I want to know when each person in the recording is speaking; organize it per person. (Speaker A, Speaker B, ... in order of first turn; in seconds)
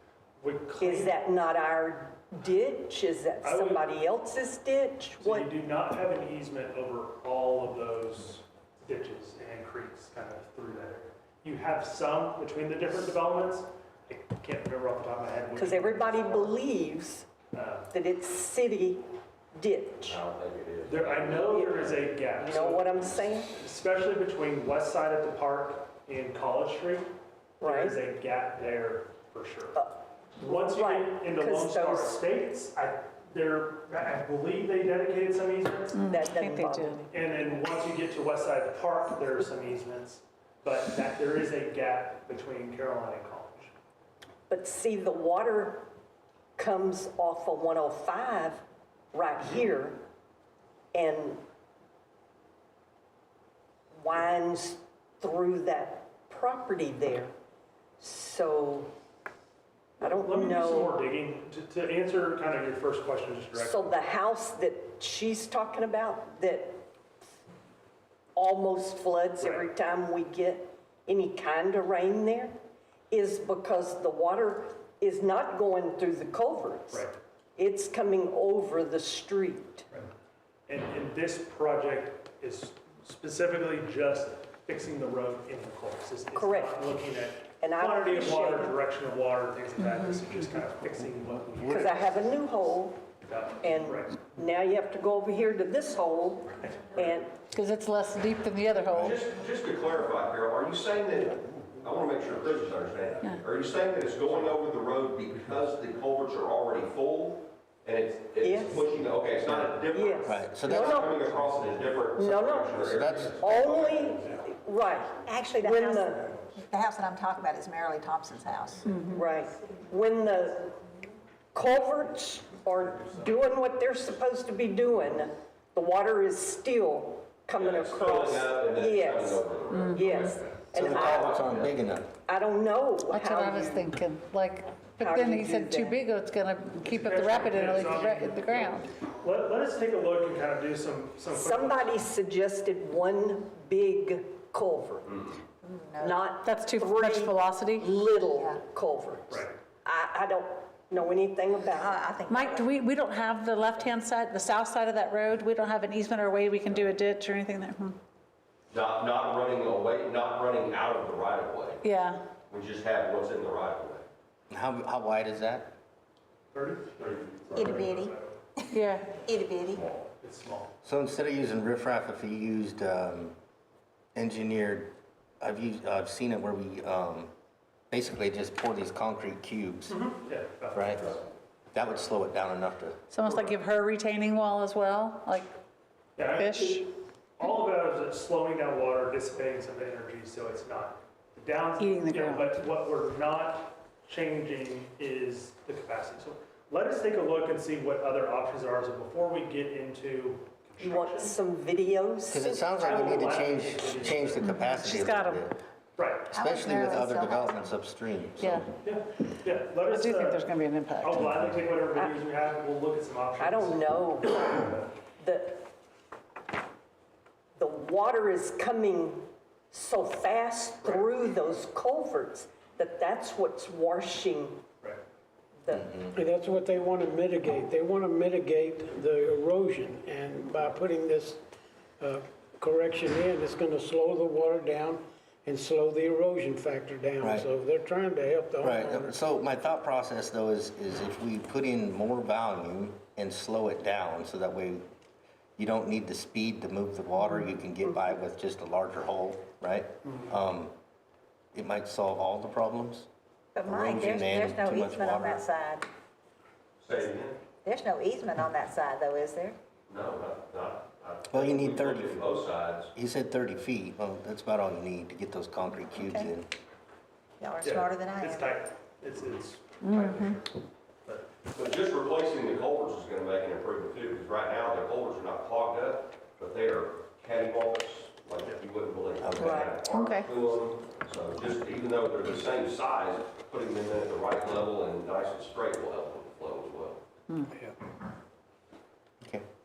Speaker A: 0.4-1.1, 3.4-3.9, 5.2-16.6, 17.5-17.9, 20.8-29.8, 30.4-36.1, 37.1-43.7, 60.1-63.9, 69.4-69.7, 76.9-77.2, 80.7-92.3, 93.2-94.2, 136.9-141.9, 149.3-149.6, 166.5-168.4, 170.2-170.7, 179.9-181.2, 186.2-186.8, 187.4-201.4, 202.7-204.6, 206.0-206.3, 208.8-214.9, 220.8-221.3, 267.6-271.3
Speaker B: 0.8-5.5, 15.6-17.3, 17.9-20.2, 21.5-21.8, 22.3-23.5, 27.6-28.0, 29.8-32.2, 36.1-37.1, 44.5-45.9, 46.6-50.0, 50.9-51.4, 53.9-57.3, 58.0-58.9, 60.0-61.0, 63.6-66.8, 68.3-72.6, 73.1-77.1, 77.6-79.9, 86.3-86.9, 87.6-88.8, 91.7-93.1, 93.6-97.4, 108.4-108.9, 109.9-111.2, 112.2-116.3, 119.1-120.8, 121.5-131.6, 132.3-133.9, 135.0-136.0, 141.3-145.3, 146.0-152.0, 200.8-203.0, 213.4-214.6, 215.2-215.7, 217.6-224.7, 225.6-226.0, 279.4-279.8
Speaker C: 20.0-21.8, 99.0-114.1, 127.6-131.8, 158.7-161.8, 162.5-164.0, 256.8-257.4, 259.9-262.9, 271.5-287.0
Speaker D: 36.0-37.0, 97.5-99.2, 118.8-119.2, 129.7-130.3, 133.1-138.9, 146.4-148.0, 152.3-158.0, 161.8-162.2, 168.7-169.2, 183.1-185.5, 186.3-186.9, 191.8-192.5, 204.4-205.4, 206.4-207.4, 208.4-208.7, 209.8-211.5, 269.8-270.4, 279.8-280.3, 287.3-287.6
Speaker E: 110.3-111.1, 112.9-113.8, 130.7-132.1, 164.5-165.8, 170.8-173.3, 174.2-177.3, 177.9-180.0, 180.7-181.1, 181.7-183.0, 202.3-205.6, 206.3-208.7, 225.7-226.1, 237.2-237.5, 238.6-244.8, 245.6-250.7, 251.5-253.1, 253.7-255.4, 261.3-262.3, 262.9-266.5, 279.2-279.8
Speaker F: 115.2-118.9, 145.6-146.2, 151.7-152.7, 167.5-168.1, 169.2-169.8, 253.6-255.9, 257.6-259.6, 266.0-266.3, 267.4-268.6
Speaker G: 226.1-231.4, 232.0-239.2